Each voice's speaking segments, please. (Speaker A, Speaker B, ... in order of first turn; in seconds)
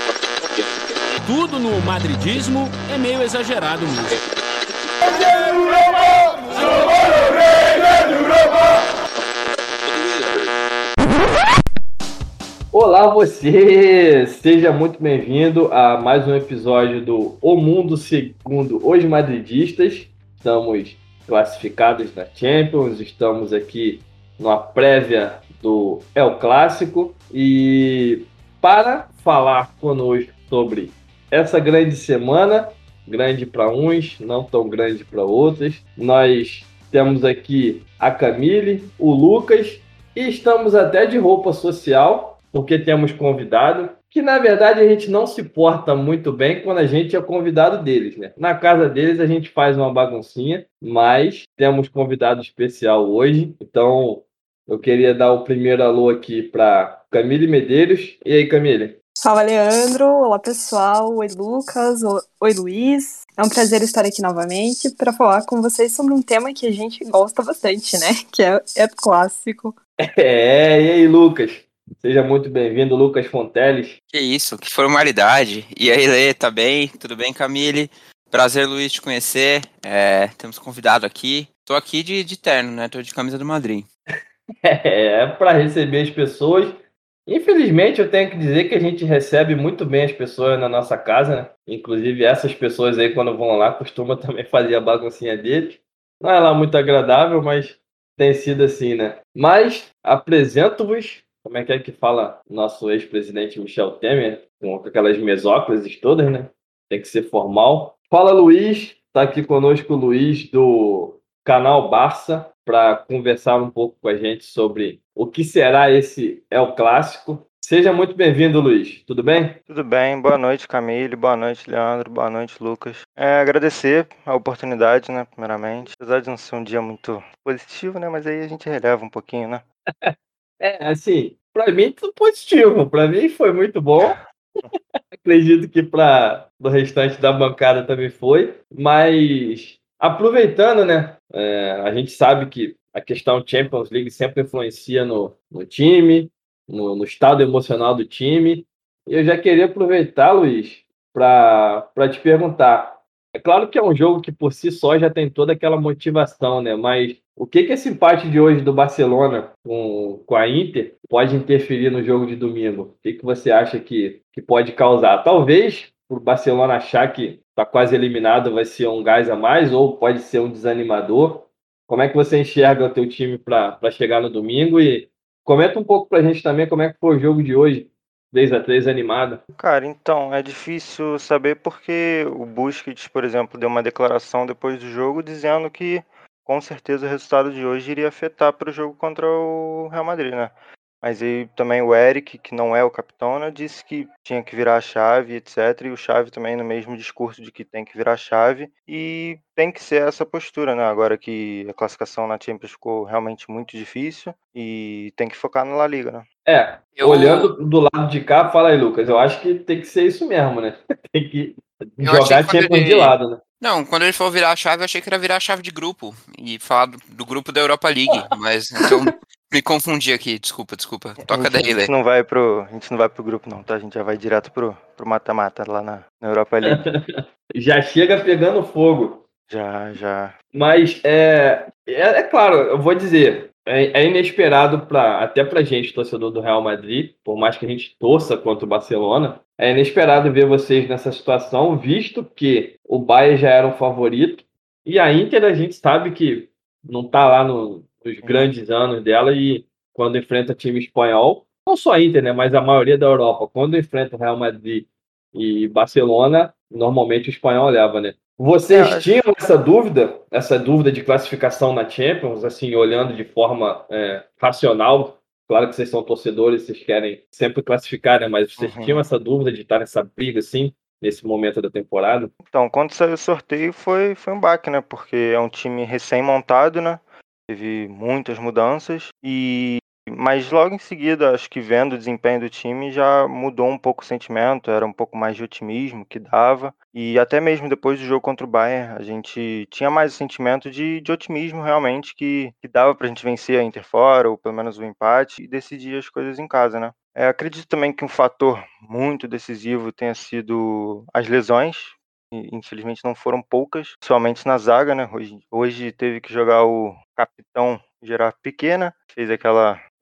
Speaker A: 1.2-4.2
Speaker B: 12.7-59.0, 70.2-74.0, 84.7-86.8, 87.3-119.6, 130.0-134.2, 135.2-179.4, 206.5-213.4, 226.7-227.0, 227.6-229.2, 230.5-272.3
Speaker C: 59.2-69.8
Speaker D: 74.1-83.9, 206.9-207.5, 212.0-221.9
Speaker E: 119.7-129.6, 179.6-206.3, 221.3-226.9, 229.5-230.3, 248.2-248.5, 258.7-259.2, 268.6-269.0, 272.5-309.8